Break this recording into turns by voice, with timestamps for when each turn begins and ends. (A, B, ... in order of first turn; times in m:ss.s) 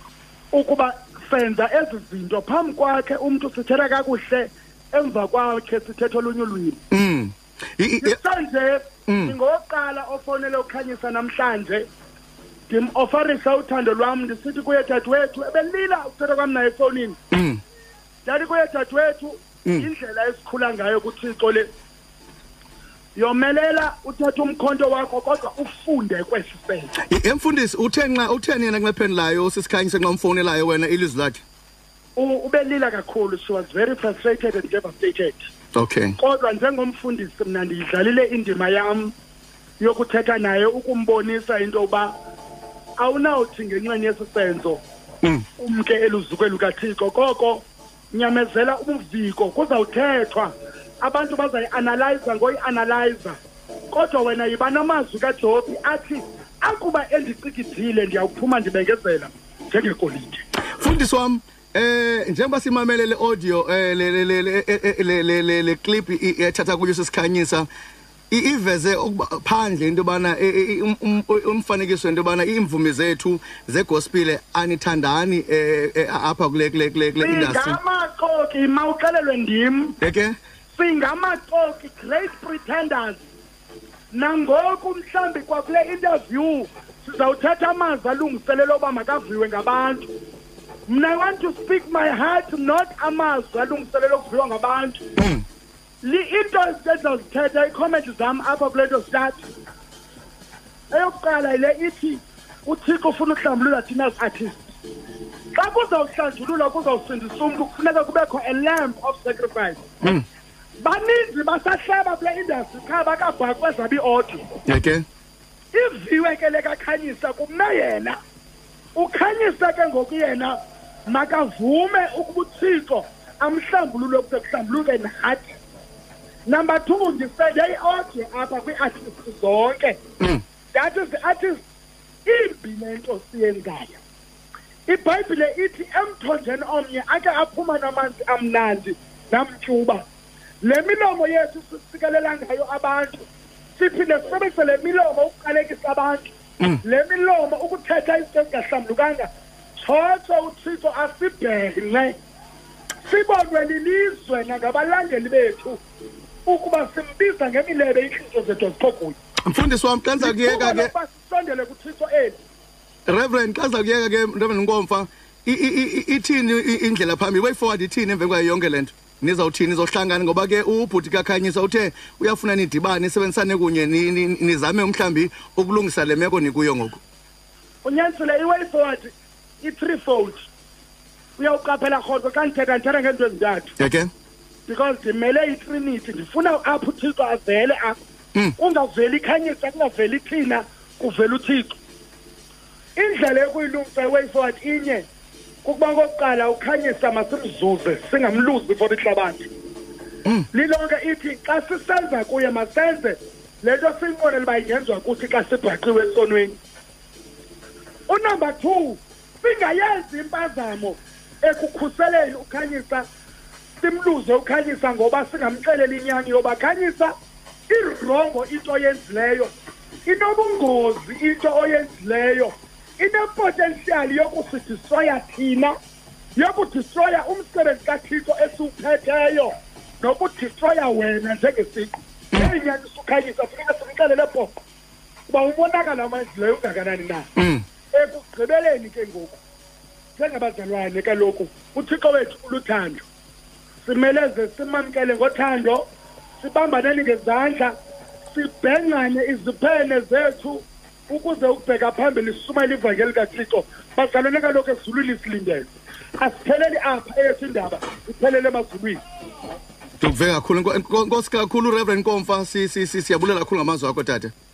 0:00.5-0:06.8 A
0:06.9-0:08.2 B
0:08.0-0:11.9 A
0:09.1-0:09.3 B
0:12.7-0:17.2 A
0:17.3-0:17.6 B
0:18.2-0:21.7 A
0:23.1-0:26.9 A
0:27.1-0:31.4 B
0:32.2-0:35.4 A
0:35.7-0:36.2 B
0:36.2-0:39.1 A
0:39.8-0:42.1 A
0:43.0-0:44.8 A
0:45.6-0:53.4 A
0:53.9-1:00.4 A
1:00.8-1:07.6 B
1:08.3-1:17.8 B
1:17.2-1:20.0 A
1:20.0-1:20.3 B
1:20.7-1:23.2 A
1:24.1-1:30.1 A
1:30.9-1:35.0 A
1:35.2-1:35.4 B
1:36.0-1:39.4 A
1:40.9-1:44.7 A
1:45.5-1:49.8 A
1:50.8-1:54.5 A
1:54.7-1:55.0 B
1:55.7-1:58.2 A
1:58.9-2:05.5 A
2:06.4-2:10.0 A
2:10.7-2:11.6 A
2:12.2-2:14.0 A
2:14.9-2:20.0 A
2:20.6-2:26.3 A
2:26.8-2:32.1 A
2:33.0-2:35.8 A
2:36.4-2:39.2 A
2:39.5-2:40.9 B
2:40.2-2:42.4 A
2:43.1-2:57.0 B
2:57.8-3:00.4 A
3:01.4-3:03.7 A
3:03.8-3:04.1 B
3:04.6-3:08.0 A
3:08.6-3:11.8 A
3:13.0-3:15.1 A
3:15.6-3:19.5 A
3:20.5-3:26.6 A
3:28.1-3:33.0 A
3:33.8-3:37.1 A
3:37.7-3:39.5 A
3:40.0-3:45.7 A
3:46.4-3:54.6 A
3:55.3-3:57.3 A
3:57.4-3:57.6 B
3:57.9-3:59.4 A
4:00.2-4:03.0 A
4:03.8-4:05.8 A
4:06.4-4:07.7 A
4:08.3-4:19.0 A
4:20.0-4:24.3 B